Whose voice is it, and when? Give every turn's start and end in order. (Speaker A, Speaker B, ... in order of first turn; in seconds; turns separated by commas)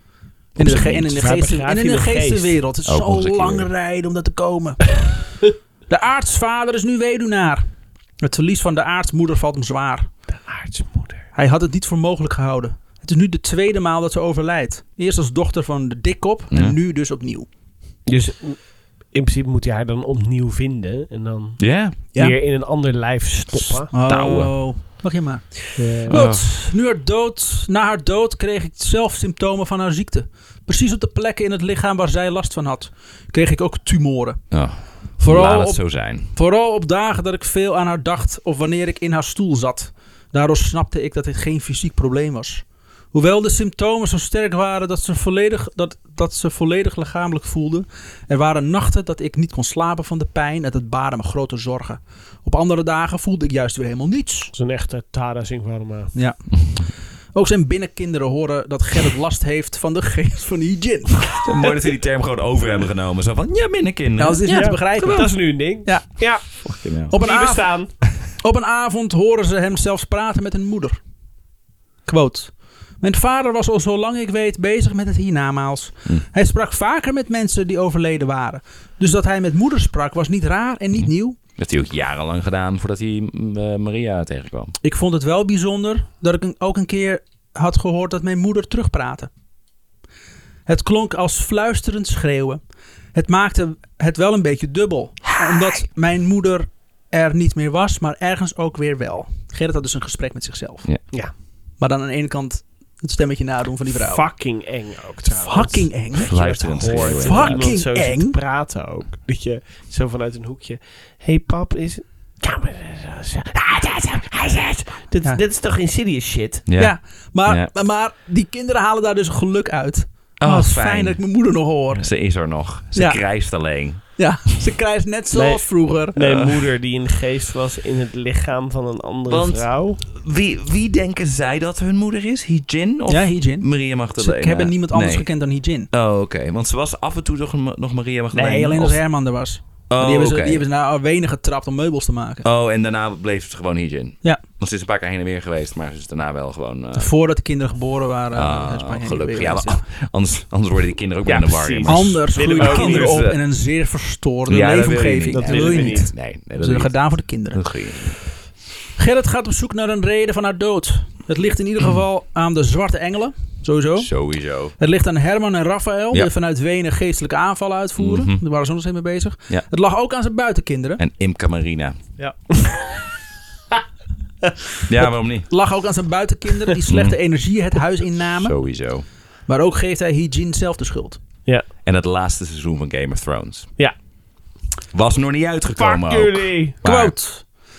Speaker A: 0.6-5.2, Speaker B: 0.6-1.2, Speaker C: 1.1-2.6, Speaker B: 2.9-3.7, Speaker A: 5.9-7.7, Speaker A: 8.2-10.1, Speaker C: 10.3-11.2, Speaker A: 11.3-17.5, Speaker C: 18.1-23.9, Speaker B: 21.6-22.0, Speaker A: 23.9-34.5, Speaker B: 24.1-24.6, Speaker C: 25.8-26.2, Speaker B: 26.1-26.5, Speaker B: 34.5-36.3, Speaker A: 35.2-54.5, Speaker C: 54.5-56.1, Speaker A: 56.1-56.5, Speaker A: 57.3-61.4, Speaker B: 61.4-64.8, Speaker A: 64.2-70.9, Speaker C: 64.5-67.9, Speaker B: 66.6-67.1, Speaker A: 72.0-81.4, Speaker B: 81.6-84.7, Speaker A: 84.8-89.3, Speaker A: 90.7-92.6, Speaker A: 93.1-101.1, Speaker A: 101.8-104.2, Speaker C: 104.0-116.7, Speaker A: 105.3-106.3, Speaker B: 106.2-107.6, Speaker A: 107.2-108.3, Speaker B: 116.7-117.7, Speaker A: 116.8-122.1, Speaker B: 120.4-121.2, Speaker B: 122.0-124.0, Speaker A: 122.9-123.2, Speaker A: 124.2-126.2, Speaker C: 125.3-130.0, Speaker B: 126.2-126.6, Speaker B: 129.3-135.3, Speaker A: 133.1-135.9, Speaker B: 135.9-139.0, Speaker A: 138.3-142.4, Speaker B: 139.9-140.6, Speaker B: 142.4-147.1, Speaker A: 146.9-149.8, Speaker B: 148.3-153.4, Speaker C: 151.2-153.2, Speaker A: 151.9-157.7, Speaker B: 154.5-158.2, Speaker C: 155.3-156.1, Speaker A: 159.0-164.1, Speaker B: 164.0-164.7, Speaker A: 164.8-171.0, Speaker B: 168.0-168.4, Speaker B: 171.0-172.0, Speaker B: 174.9-175.5, Speaker A: 175.0-178.5, Speaker B: 176.8-177.2, Speaker B: 178.4-179.0, Speaker A: 179.5-181.2, Speaker B: 181.8-183.7, Speaker B: 184.9-187.1, Speaker C: 185.8-186.8, Speaker A: 186.8-187.5